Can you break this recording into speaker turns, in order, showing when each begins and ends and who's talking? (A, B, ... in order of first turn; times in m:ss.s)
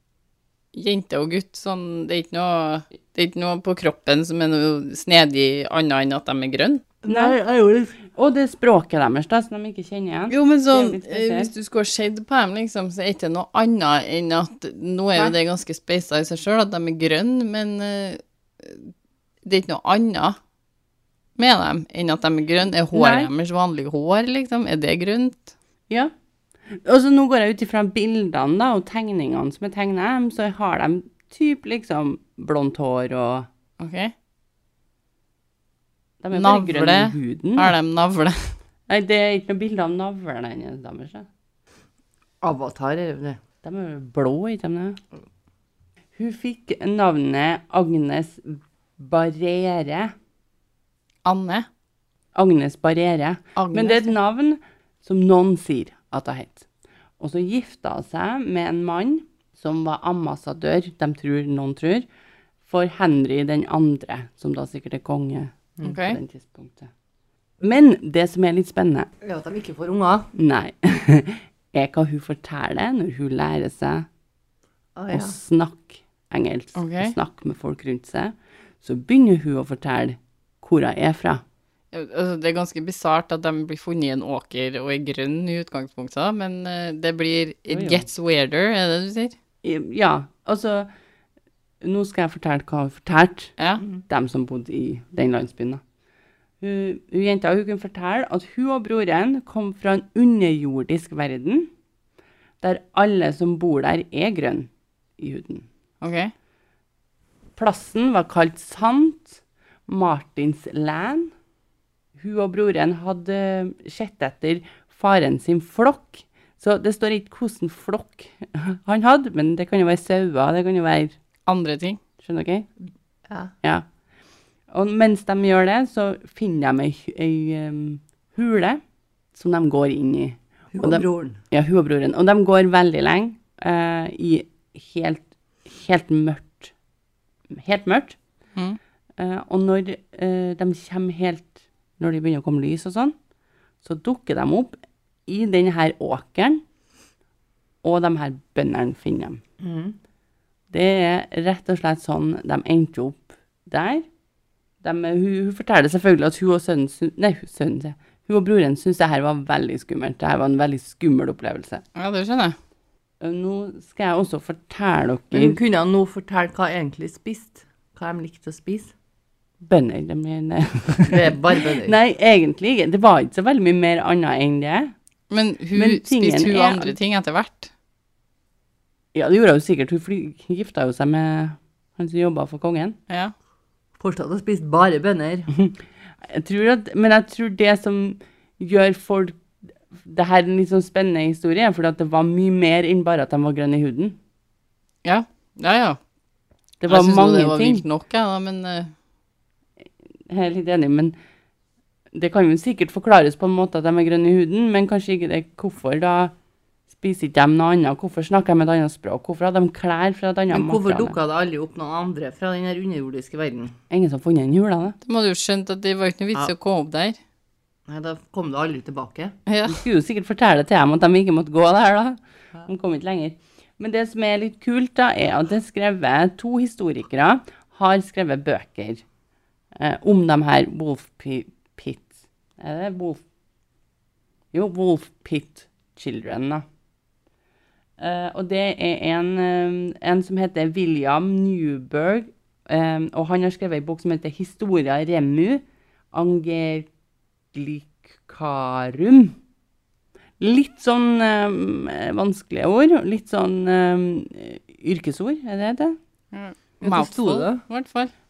0:00.7-0:07.0 A
0:07.0-0:07.9 B
0:07.0-0:07.4 C
0:08.0-0:11.5 C
0:10.3-0:18.9 A
0:19.4-0:20.4 A
0:21.4-0:25.5 A
0:22.9-0:23.3 C
0:26.7-0:33.5 C
0:33.8-0:34.1 A
0:36.2-0:37.8 C
0:36.3-0:38.6 A
0:38.9-0:41.3 C
0:42.4-0:43.4 B
0:43.6-0:45.0 C
0:46.2-0:50.1 C
0:51.2-0:51.7 A
0:52.4-0:56.6 C
0:53.6-0:54.2 A
0:57.2-1:02.1 C
1:02.6-1:06.9 C
1:05.8-1:06.2 A
1:07.6-1:09.1 C
1:09.2-1:10.3 B
1:10.4-1:14.1 C
1:15.0-1:15.4 B
1:15.1-1:21.4 C
1:16.8-1:17.2 A
1:21.9-1:29.4 A
1:27.7-1:28.0 C
1:29.6-1:30.9 C
1:31.8-1:33.6 C
1:34.1-1:35.8 C
1:36.6-1:41.7 C
1:42.6-1:45.7 C
1:46.0-1:46.3 A
1:47.6-1:51.3 C
1:52.2-2:01.1 C
2:01.5-2:02.0 A
2:02.2-2:02.7 C
2:03.3-2:03.5 B
2:04.7-2:08.8 C
2:09.3-2:16.7 C
2:10.7-2:11.4 B
2:17.5-2:18.2 C
2:19.2-2:23.2 C
2:23.8-2:24.8 C
2:25.3-2:26.6 C
2:27.8-2:29.4 C
2:29.6-2:30.0 B
2:30.7-2:34.1 C
2:34.8-2:41.8 C
2:42.0-2:42.6 A
2:43.2-2:45.6 C
2:45.3-2:48.9 B
2:49.6-2:54.9 C
2:51.0-2:52.0 B
2:55.3-2:57.7 A
2:55.8-2:57.0 C
2:59.1-3:03.0 C
3:03.1-3:03.3 A
3:04.0-3:05.5 B
3:05.5-3:09.4 C
3:09.9-3:14.2 C
3:15.0-3:16.0 A
3:16.8-3:17.8 C
3:16.9-3:18.9 A
3:20.3-3:21.1 C
3:22.1-3:26.3 C
3:26.9-3:31.2 C
3:30.5-3:33.8 B
3:33.9-3:35.0 C
3:35.0-3:37.2 A
3:37.9-3:39.4 B
3:39.5-3:39.8 A
3:39.7-3:49.0 C
3:49.8-3:53.2 C
3:54.5-3:56.6 C
3:58.0-4:06.9 C
4:07.5-4:09.4 C
4:10.4-4:16.0 C
4:16.3-4:18.1 A
4:16.8-4:17.6 B